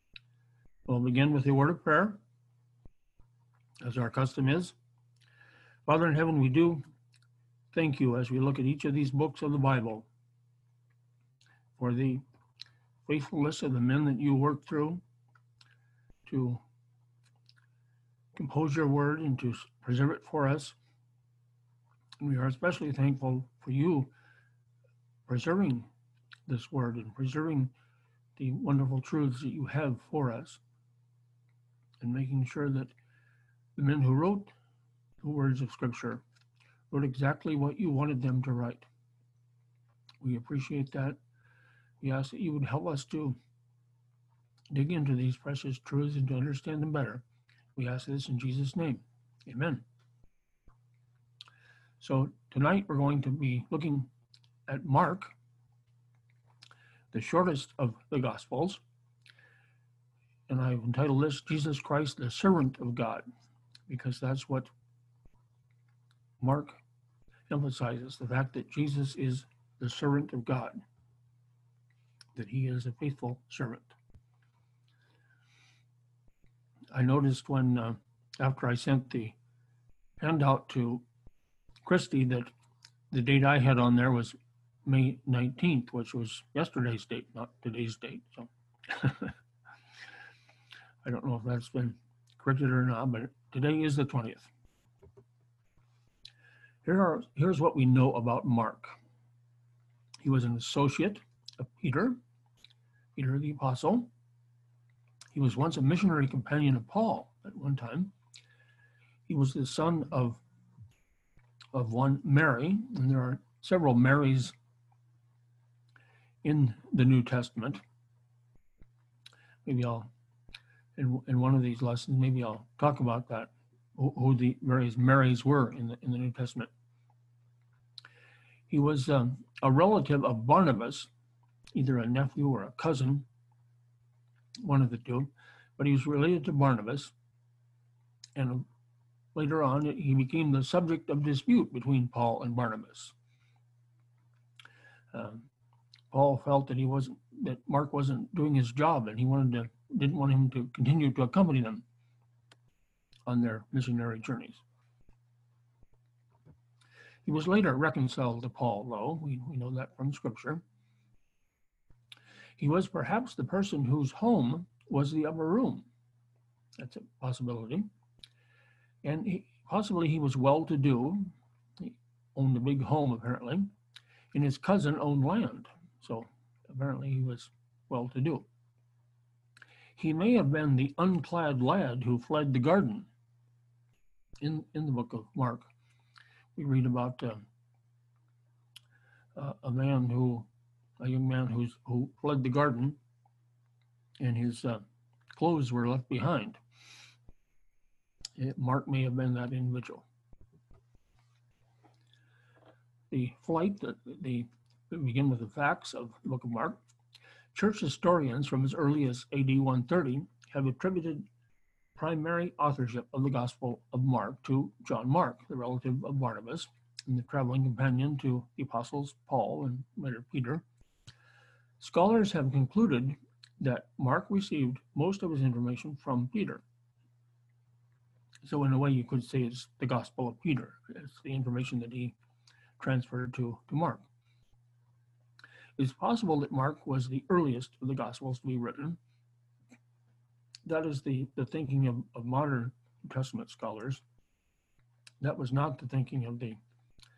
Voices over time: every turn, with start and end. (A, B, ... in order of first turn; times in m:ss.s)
0:00.8-0:02.2 A
0:03.8-0:04.8 A
0:05.8-0:06.8 A
0:07.7-0:10.1 A
0:11.8-0:12.2 A
0:13.0-0:15.0 A
0:16.3-0:16.6 A
0:18.3-0:20.8 A
0:22.2-0:24.1 A
0:25.3-0:25.9 A
0:26.5-0:27.7 A
0:28.4-0:30.6 A
0:32.0-0:32.9 A
0:33.8-0:34.5 A
0:35.2-0:36.2 A
0:36.9-0:38.9 A
0:40.2-0:41.2 A
0:42.0-0:43.4 A
0:44.7-0:47.2 A
0:47.8-0:49.8 A
0:52.0-0:54.1 A
0:54.7-0:55.3 A
0:57.1-0:58.8 A
1:00.5-1:03.2 A
1:03.9-1:04.7 A
1:06.4-1:06.8 A
1:07.5-1:10.8 A
1:12.4-1:14.0 A
1:16.9-1:19.4 A
1:20.2-1:21.0 A
1:21.8-1:22.5 A
1:23.1-1:29.4 A
1:31.0-1:34.5 A
1:36.8-1:39.0 A
1:40.2-1:42.2 A
1:43.2-1:44.1 A
1:45.3-1:48.1 A
1:49.3-1:50.4 A
1:51.7-1:54.5 A
1:56.4-1:57.8 A
1:59.6-2:00.1 A
2:01.0-2:06.7 A
2:08.7-2:11.1 A
2:11.7-2:13.2 A
2:14.6-2:17.1 A
2:18.3-2:18.7 A
2:19.3-2:23.1 A
2:25.1-2:25.5 A
2:26.1-2:31.8 A
2:33.3-2:34.6 A
2:37.2-2:40.6 A
2:42.6-2:45.8 A
2:46.8-2:47.9 A
2:49.0-2:53.7 A
2:54.3-2:58.5 A
3:00.0-3:03.1 A
3:04.4-3:05.7 A
3:06.6-3:07.4 A
3:09.3-3:10.5 A
3:11.0-3:13.0 A
3:14.2-3:14.8 A
3:15.4-3:16.6 A
3:18.4-3:20.0 A
3:23.1-3:26.8 A
3:27.5-3:31.2 A
3:32.0-3:40.6 A
3:41.8-3:46.6 A
3:48.4-3:52.1 A
3:52.8-3:54.0 A
3:55.8-3:59.0 A
4:00.6-4:04.0 A
4:05.2-4:06.6 A